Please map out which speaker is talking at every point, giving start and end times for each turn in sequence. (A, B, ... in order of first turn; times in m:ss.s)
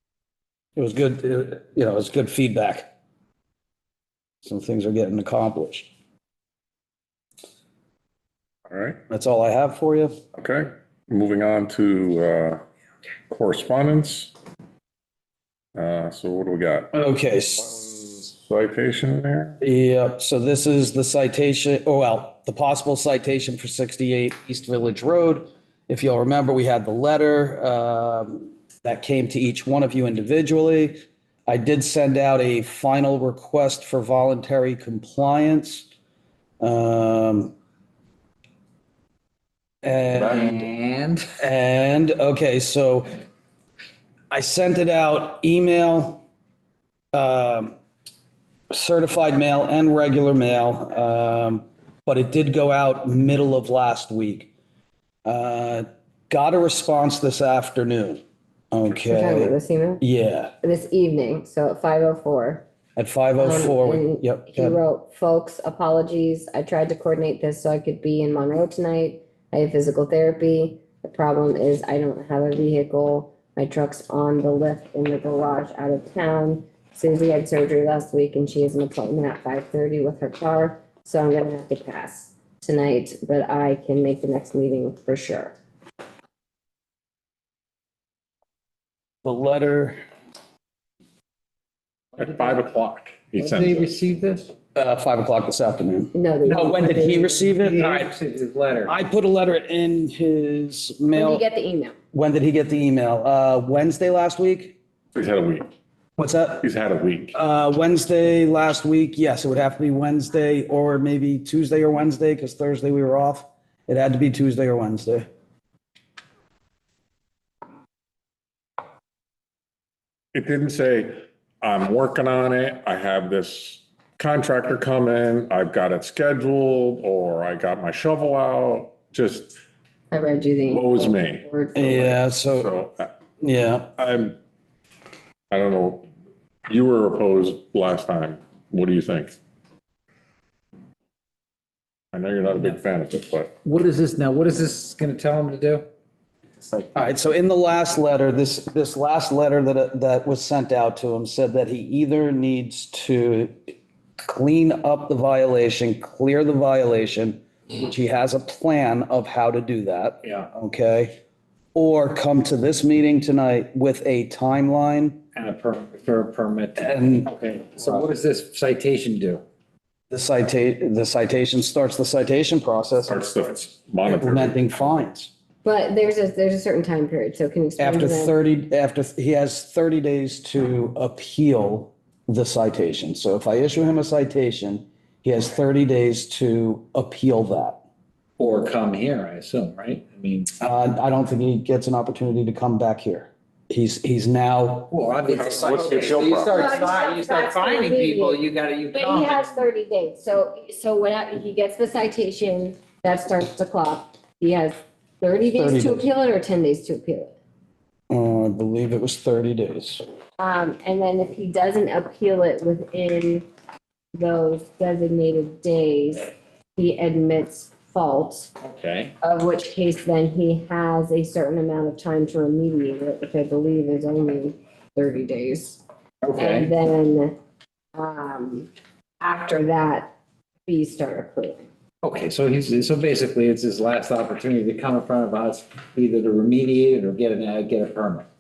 0:00.8-0:02.9 A
0:04.4-0:05.9 A
0:08.7-0:09.0 B
0:09.1-0:10.1 A
0:10.4-0:12.6 B
0:13.3-0:14.3 B
0:15.8-0:19.6 B
0:16.9-0:18.2 A
0:19.6-0:35.9 A
0:36.6-0:37.5 A
0:39.8-0:40.7 A
0:40.2-0:41.3 C
0:41.4-0:43.1 A
0:44.3-0:46.2 A
0:47.1-0:47.7 A
0:48.7-0:54.5 A
0:55.2-0:58.2 A
0:58.7-1:00.5 A
0:59.0-1:00.0 D
1:00.6-1:02.7 D
1:03.0-1:04.8 A
1:03.4-1:25.6 D
1:29.2-1:30.0 A
1:32.2-1:34.0 B
1:32.2-1:32.6 C
1:33.4-1:34.5 C
1:34.7-1:38.1 A
1:36.1-1:37.3 D
1:37.3-1:39.0 C
1:38.8-1:41.4 A
1:41.1-1:42.0 D
1:42.1-1:44.8 A
1:45.1-1:45.7 B
1:46.2-1:46.6 A
1:46.6-1:47.4 B
1:47.3-1:55.3 A
2:00.3-2:09.6 B
2:10.1-2:12.1 D
2:10.7-2:11.5 B
2:11.8-2:12.7 A
2:12.1-2:13.1 B
2:13.4-2:13.9 A
2:14.0-2:14.4 B
2:15.5-2:16.1 B
2:16.7-2:19.4 B
2:22.1-2:23.5 B
2:23.6-2:25.8 C
2:26.9-2:41.1 A
2:40.2-2:40.5 C
2:41.8-2:45.2 A
2:45.3-2:49.4 C
2:46.8-2:47.3 A
2:50.1-2:53.2 A
2:53.1-2:55.1 B
2:54.1-2:55.3 A
2:55.6-2:58.4 D
2:57.8-3:07.8 A
3:08.4-3:10.5 C
3:10.6-3:14.9 A
3:14.9-3:19.4 C
3:15.3-3:16.7 B
3:16.5-3:18.4 D
3:18.9-3:27.3 D
3:25.5-3:26.1 A
3:28.1-3:30.0 A
3:30.4-3:33.4 D
3:34.1-3:38.5 D
3:38.6-3:39.1 C
3:39.2-3:45.8 D
3:46.2-3:46.7 C
3:46.4-3:47.4 D
3:47.9-3:51.7 D
3:52.0-3:58.2 C